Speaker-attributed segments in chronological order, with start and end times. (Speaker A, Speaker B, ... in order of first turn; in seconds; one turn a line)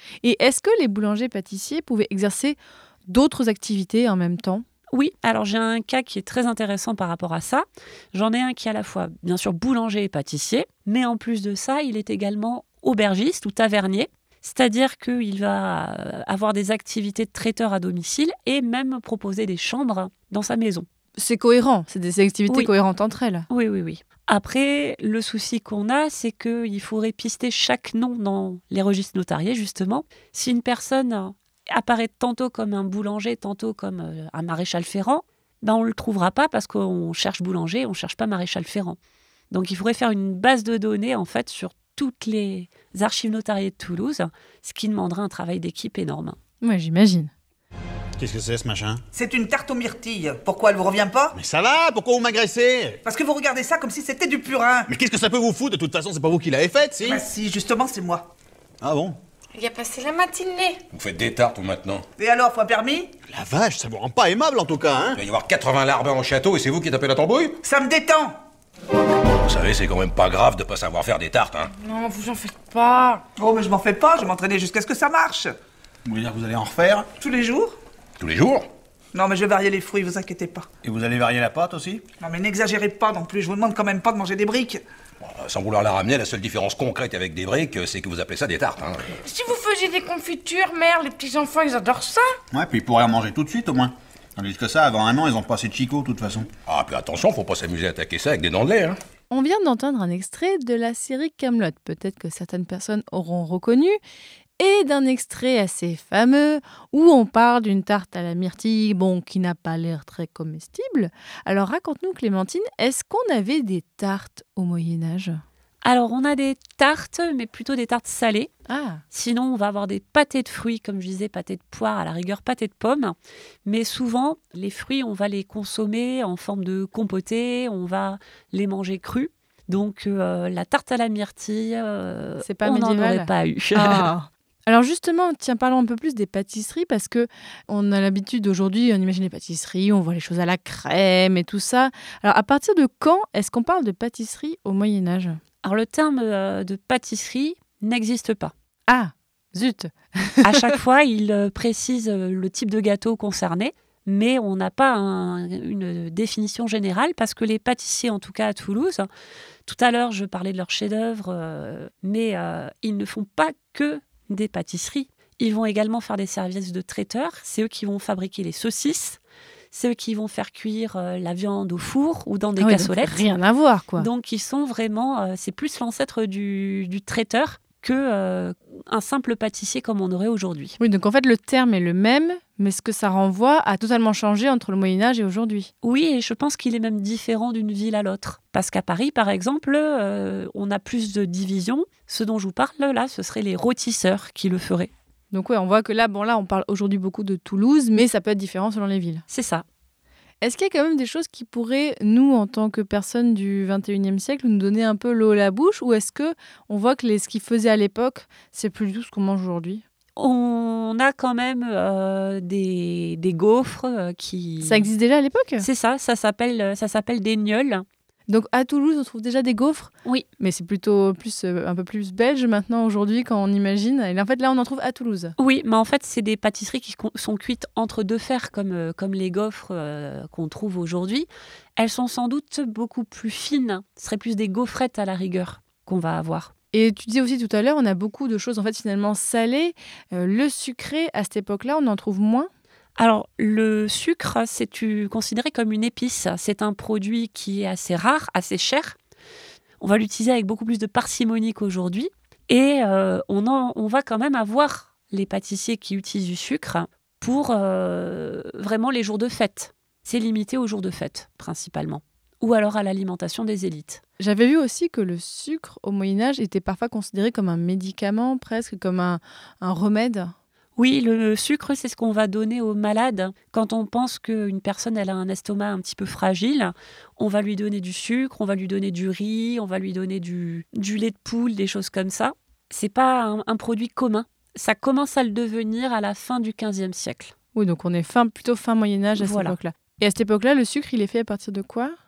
Speaker A: 0.2-4.6
Speaker B: 4.9-20.9
Speaker A: 21.2-23.5
Speaker B: 23.5-39.0
Speaker B: 39.5-46.4
Speaker A: 46.6-47.3
Speaker C: 48.2-49.0
Speaker D: 49.1-51.4
Speaker C: 51.3-53.0
Speaker D: 53.0-54.9
Speaker C: 54.9-57.2
Speaker D: 57.0-58.3
Speaker C: 58.8-59.2
Speaker E: 59.5-60.8
Speaker F: 60.9-62.0
Speaker D: 62.2-63.1
Speaker C: 63.3-65.2
Speaker F: 65.2-67.6
Speaker D: 67.6-68.3
Speaker F: 69.4-71.7
Speaker E: 71.8-73.2
Speaker D: 73.4-75.5
Speaker C: 76.0-77.1
Speaker D: 77.2-77.8
Speaker F: 78.2-78.7
Speaker D: 79.1-80.7
Speaker C: 80.8-82.1
Speaker D: 82.2-84.8
Speaker F: 85.2-89.1
Speaker E: 89.2-92.4
Speaker C: 92.5-96.5
Speaker F: 96.7-99.0
Speaker A: 99.3-104.0
Speaker A: 104.6-115.4
Speaker B: 115.8-118.5
Speaker A: 118.7-119.0
Speaker B: 119.1-134.1
Speaker A: 132.4-145.4
Speaker B: 145.6-148.5
Speaker A: 148.9-150.8
Speaker B: 150.4-159.1
Speaker B: 159.7-169.2
Speaker B: 169.7-173.2
Speaker A: 172.6-174.1
Speaker B: 174.0-180.8
Speaker A: 180.8-185.7
Speaker B: 185.8-194.9
Speaker A: 195.3-199.2
Speaker B: 199.3-199.6
Speaker A: 200.4-209.8
Speaker B: 210.2-214.9
Speaker A: 214.6-215.7
Speaker B: 215.6-217.8
Speaker A: 218.3-225.3
Speaker B: 225.4-236.5
Speaker A: 236.7-242.5
Speaker B: 243.0-249.0
Speaker B: 249.8-264.0
Speaker A: 264.2-270.3
Speaker B: 270.8-287.3
Speaker A: 287.5-291.9
Speaker B: 289.2-289.6